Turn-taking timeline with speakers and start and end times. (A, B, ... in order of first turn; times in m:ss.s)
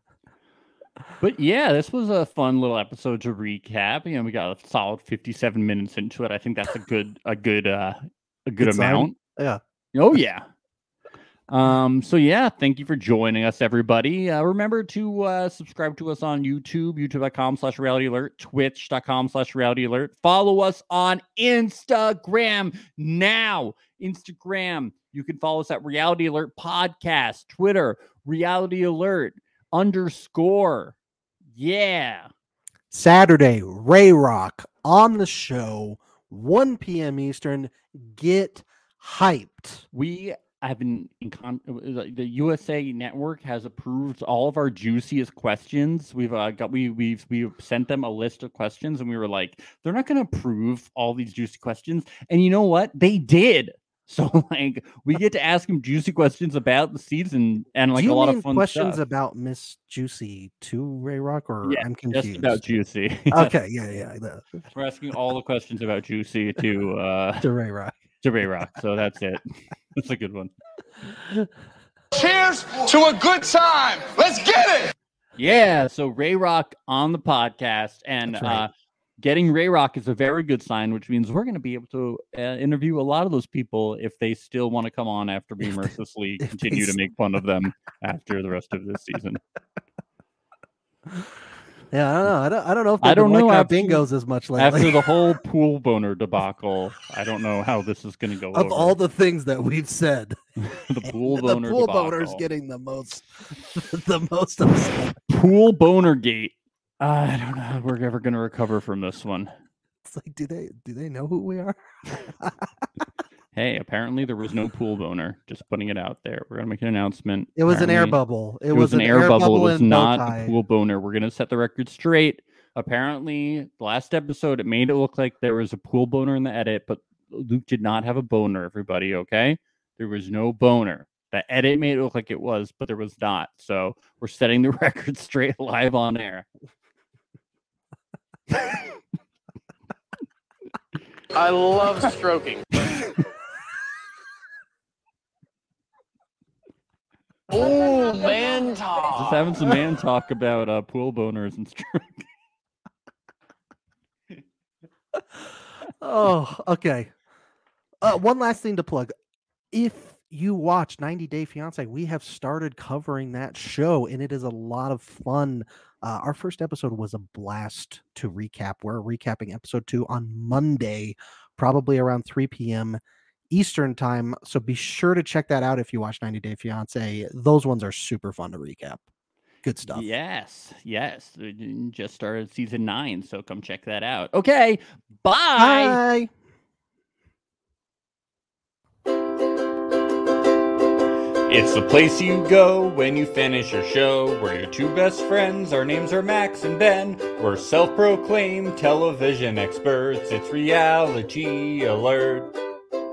0:01.2-0:09.2 A
0:08.6-0:09.6 B
0:09.9-0:10.5 A
0:11.5-0:31.0 A
0:31.6-0:32.3 A
0:32.9-0:39.8 B
0:39.9-0:59.0 A
0:57.9-1:04.6 B
1:01.6-1:03.5 A
1:04.7-1:07.5 A
1:07.4-1:08.0 B
1:08.2-1:09.4 A
1:10.0-1:10.5 A
1:12.1-1:14.9 C
1:15.4-1:29.4 A
1:18.2-1:18.7 B
1:26.4-1:27.0 B
1:31.9-1:35.0 B
1:33.0-1:39.0 A
1:38.5-1:40.4 B
1:40.6-1:42.4 A
1:41.0-1:45.2 B
1:45.3-1:49.5 A
1:50.0-1:53.0 B
1:53.5-1:58.2 A
1:57.6-2:00.6 B
1:58.7-2:16.5 A
2:21.4-2:22.7 D
2:27.5-2:29.4 D
2:29.1-2:32.3 A
2:36.0-2:37.1 B
2:38.0-2:39.1 B
2:39.7-2:59.0 B
2:59.6-3:00.1 B
2:59.9-3:06.0 A
3:05.6-3:06.3 B
3:11.5-3:22.5 E